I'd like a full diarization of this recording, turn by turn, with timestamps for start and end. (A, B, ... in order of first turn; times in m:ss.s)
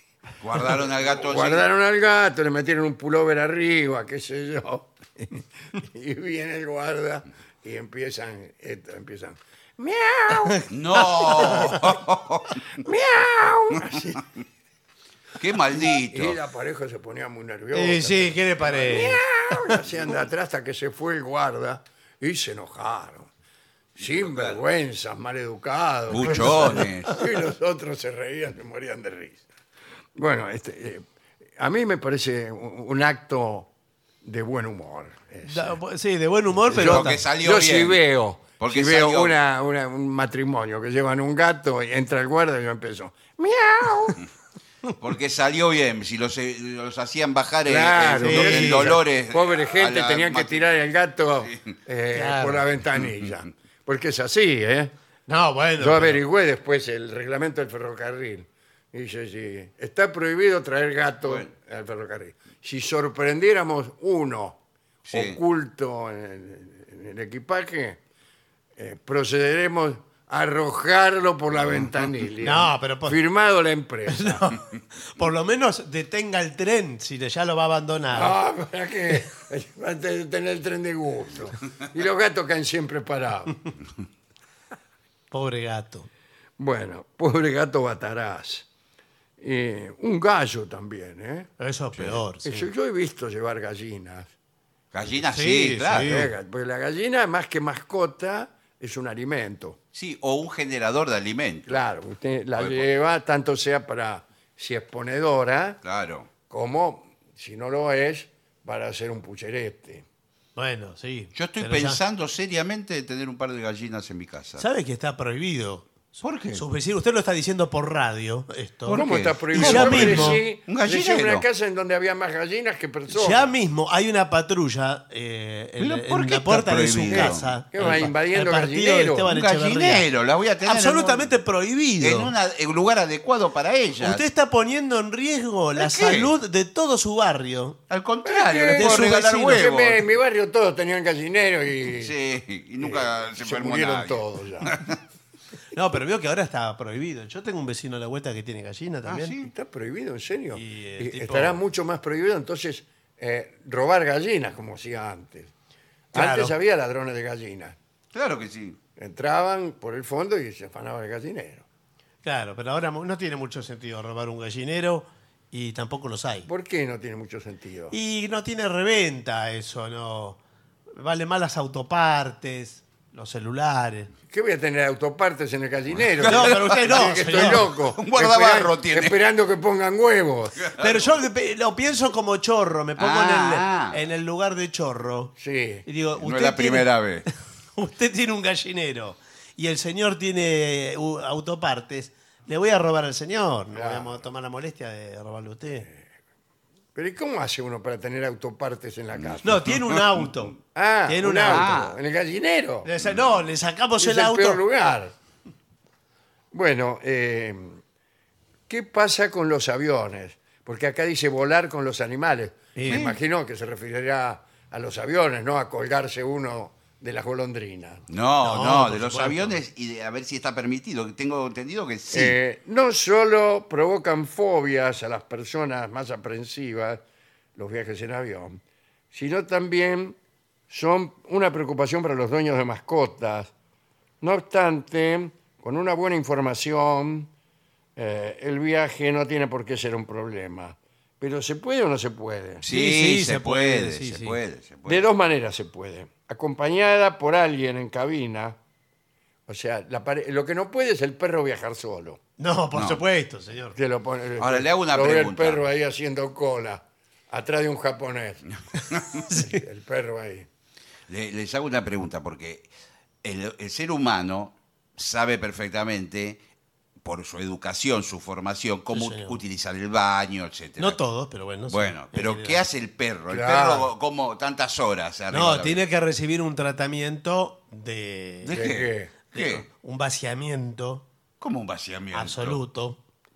0:00.4-0:01.7 A
0:00.5-0:11.9 B
0:10.3-0:10.7 C
0:10.7-0:12.6 A
0:11.2-0:11.8 C
0:12.7-0:14.2 B
0:15.4-0:16.4 A
0:15.7-0:23.3 B
0:17.7-0:19.8 C
0:24.0-0:29.4 B
0:24.0-0:24.6 A
0:26.1-0:27.2 A
0:26.3-0:27.1 C
0:30.2-0:31.0 B
0:31.6-0:33.7 B
0:34.2-0:35.8 B
0:35.4-0:37.2 C
0:36.6-0:44.2 B
0:36.7-0:38.0 A
0:38.6-0:39.4 A
0:45.0-0:50.7 A
0:47.6-0:54.9 B
0:48.2-0:49.0 C
0:51.4-0:51.7 A
0:52.1-0:52.6 C
0:55.3-0:56.2 C
0:55.8-1:04.6 B
1:01.2-1:01.5 A
1:05.0-1:05.4 A
1:05.1-1:08.0 B
1:08.8-1:14.5 B
1:12.4-1:13.2 C
1:14.1-1:18.4 C
1:18.1-1:23.6 B
1:25.3-1:26.1 C
1:26.6-1:28.7 B
1:29.4-1:31.5 B
1:31.6-1:32.7 C
1:32.0-1:32.2 A
1:32.4-1:34.3 B
1:34.9-1:36.3 A
1:35.3-1:36.3 C
1:35.9-1:39.8 B
1:39.9-1:41.8 A
1:41.7-1:45.8 B
1:42.6-1:42.8 A
1:45.8-1:46.3 A
1:46.5-1:50.0 B
1:50.6-1:52.0 C
1:51.3-1:54.6 A
1:54.6-2:00.4 C
1:56.2-1:56.6 A
1:58.8-2:01.4 A
1:58.9-2:03.5 B
2:03.1-2:10.1 C
2:05.8-2:08.0 A
2:07.1-2:09.3 B
2:09.2-2:11.3 A
2:10.6-2:12.3 C
2:12.0-2:14.2 A
2:14.0-2:17.8 C
2:15.8-2:16.3 A
2:17.9-2:20.0 A
2:18.2-2:22.1 B
2:18.8-2:19.6 C
2:21.9-2:25.0 A
2:22.8-2:24.8 B
2:25.7-2:29.4 C
2:29.0-2:29.5 A
2:29.4-2:35.5 B
2:30.5-2:31.6 C
2:36.1-2:37.8 B
2:36.1-2:36.5 C
2:38.1-2:38.8 A
2:39.0-2:41.6 B
2:42.2-2:46.5 C
2:46.5-2:47.9 B
2:47.9-2:50.4 C
2:50.9-2:54.1 C
2:54.3-3:00.6 B
2:56.0-2:59.2 A
2:56.2-2:57.6 C
3:00.6-3:01.1 A
3:00.8-3:05.3 C
3:03.0-3:04.0 A
3:05.4-3:05.8 B
3:05.8-3:15.9 C
3:06.2-3:07.2 A
3:13.7-3:14.2 B
3:16.9-3:19.6 B
3:19.2-3:20.2 A
3:19.4-3:20.6 C
3:20.7-3:22.9 B
3:21.1-3:21.9 C
3:21.4-3:22.0 A
3:22.8-3:24.6 C
3:24.0-3:25.1 B
3:26.5-3:27.8 B
3:28.7-3:38.0 B
3:32.7-3:33.1 C
3:32.9-3:33.2 A
3:38.1-3:42.4 A
3:38.4-3:39.6 C
3:42.1-3:47.0 B
3:47.5-3:48.6 B
3:49.1-3:50.2 B
3:50.7-3:53.5 B
3:54.2-3:57.3 B
3:58.0-4:02.6 B
4:02.6-4:05.0 A
4:02.7-4:04.4 C
4:04.8-4:08.6 B
4:09.5-4:12.2 B
4:12.4-4:13.8 C
4:12.7-4:13.0 A
4:13.7-4:18.4 B
4:14.4-4:15.6 A
4:18.8-4:19.3 A
4:19.3-4:19.6 C
4:19.3-4:20.5 B
4:21.1-4:22.7 A
4:23.2-4:26.4 A
4:27.0-4:31.0 A
4:28.9-4:29.4 C
4:30.8-4:32.6 C
4:31.7-4:35.8 A
4:33.3-4:33.9 B
4:35.3-4:38.7 C
4:38.4-4:39.6 A
4:38.5-4:39.1 B
4:39.3-4:41.0 C
4:41.4-4:42.6 A
4:42.1-4:43.0 C